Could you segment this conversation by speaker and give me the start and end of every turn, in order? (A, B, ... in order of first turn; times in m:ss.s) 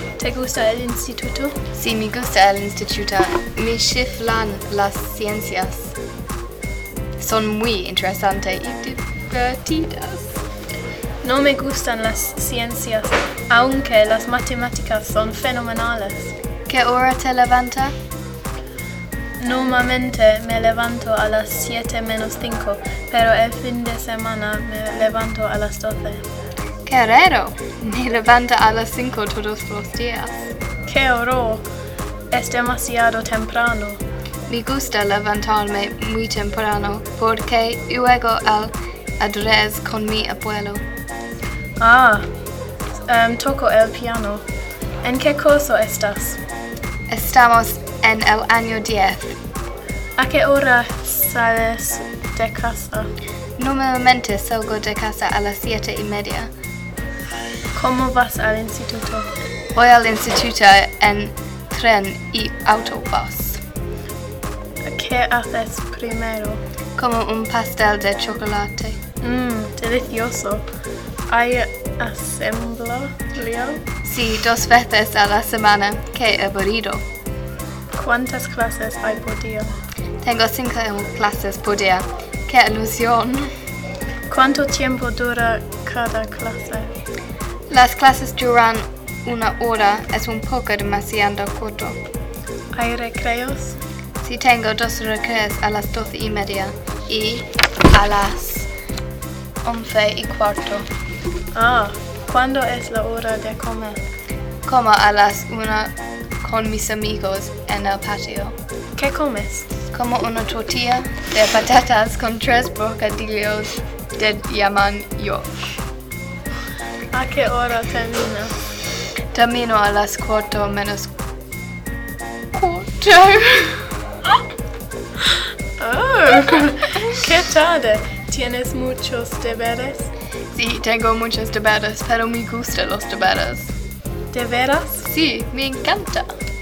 0:00.2-0:01.6 A
0:01.7-0:05.9 B
0:07.2-0:10.4 B
0:11.2-0:16.4 A
0:16.7-0:17.9 B
0:19.4-0:26.2 A
0:26.9-0:30.5 B
0:30.8-0:31.6 A
0:32.3-0:34.0 A
0:34.5-0:40.8 B
0:41.8-0:42.3 A
0:43.1-0:44.4 A
0:45.0-0:46.4 A
0:47.1-0:49.4 B
0:50.2-0:53.1 A
0:53.6-0:56.5 B
0:57.7-0:59.3 A
0:59.8-1:03.6 B
1:04.8-1:06.6 A
1:07.0-1:09.0 B
1:09.2-1:10.6 A
1:11.3-1:13.8 A
1:14.0-1:17.0 B
1:17.9-1:19.7 A
1:20.2-1:23.5 B
1:24.3-1:26.9 A
1:27.7-1:32.0 B
1:32.8-1:33.8 A
1:34.2-1:38.7 B
1:39.6-1:40.9 B
1:41.5-1:44.0 A
1:44.7-1:48.6 B
1:49.0-1:49.7 A
1:49.9-1:55.5 B
1:57.1-1:58.5 A
1:59.3-2:01.1 B
2:02.5-2:03.9 B
2:05.8-2:10.1 A
2:10.5-2:13.7 B
2:14.3-2:15.1 A
2:15.0-2:16.4 B